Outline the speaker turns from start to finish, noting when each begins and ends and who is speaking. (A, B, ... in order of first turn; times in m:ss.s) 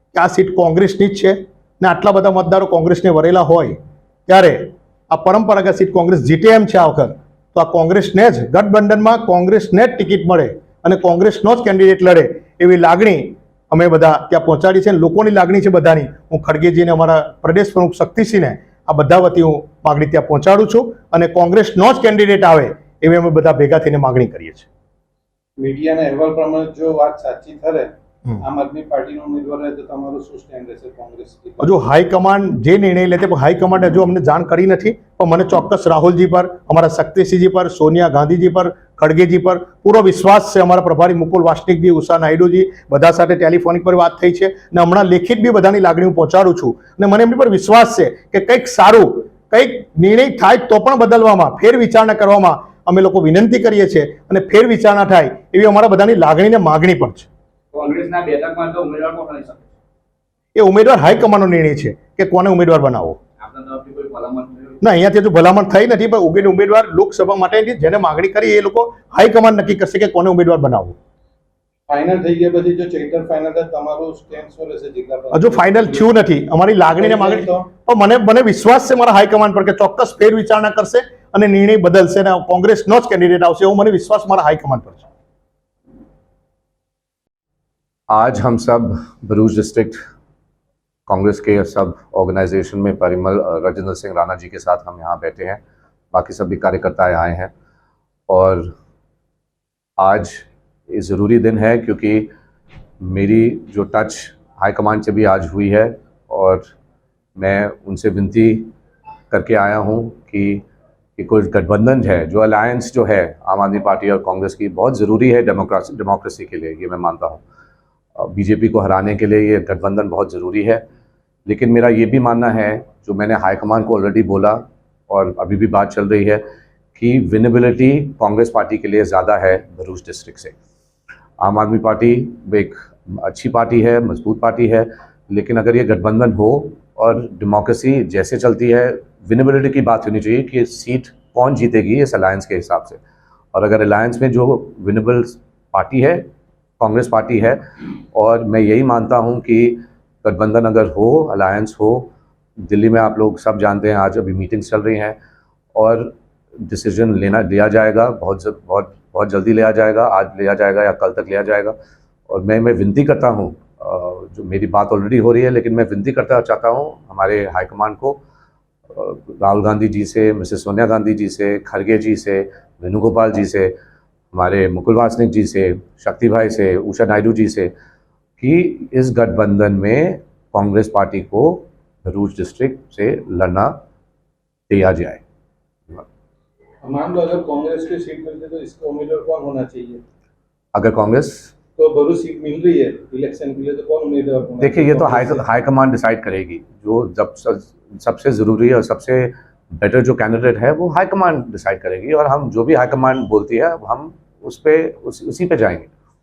0:00.1-0:24.7 A
0:25.6-0:27.9 B
0:28.4-0:31.6 B
0:31.6-0:57.3 A
0:57.7-0:59.7 C
1:00.6-1:03.2 A
1:03.4-1:04.8 C
1:04.8-1:11.0 A
1:11.9-1:16.1 B
1:15.3-1:25.1 A
1:17.0-1:17.7 B
1:28.1-1:30.0 D
1:31.1-1:35.6 D
1:36.1-1:37.5 D
1:38.3-1:38.7 D
1:40.0-1:42.3 D
1:43.0-1:46.7 D
1:47.4-1:48.7 D
1:49.3-1:50.6 D
1:51.2-1:57.4 D
1:58.2-2:00.8 D
2:01.5-2:06.4 D
2:07.0-2:10.5 D
2:11.4-2:23.0 D
2:23.5-2:26.3 D
2:26.8-2:32.1 D
2:32.6-2:35.2 D
2:35.8-2:41.8 D
2:42.3-2:48.2 D
2:48.9-2:53.7 D
2:54.3-2:57.7 D
2:58.4-3:03.8 D
3:04.7-3:05.2 D
3:06.8-3:10.0 B
3:10.7-3:11.5 D
3:11.8-3:15.4 B
3:14.6-3:25.9 D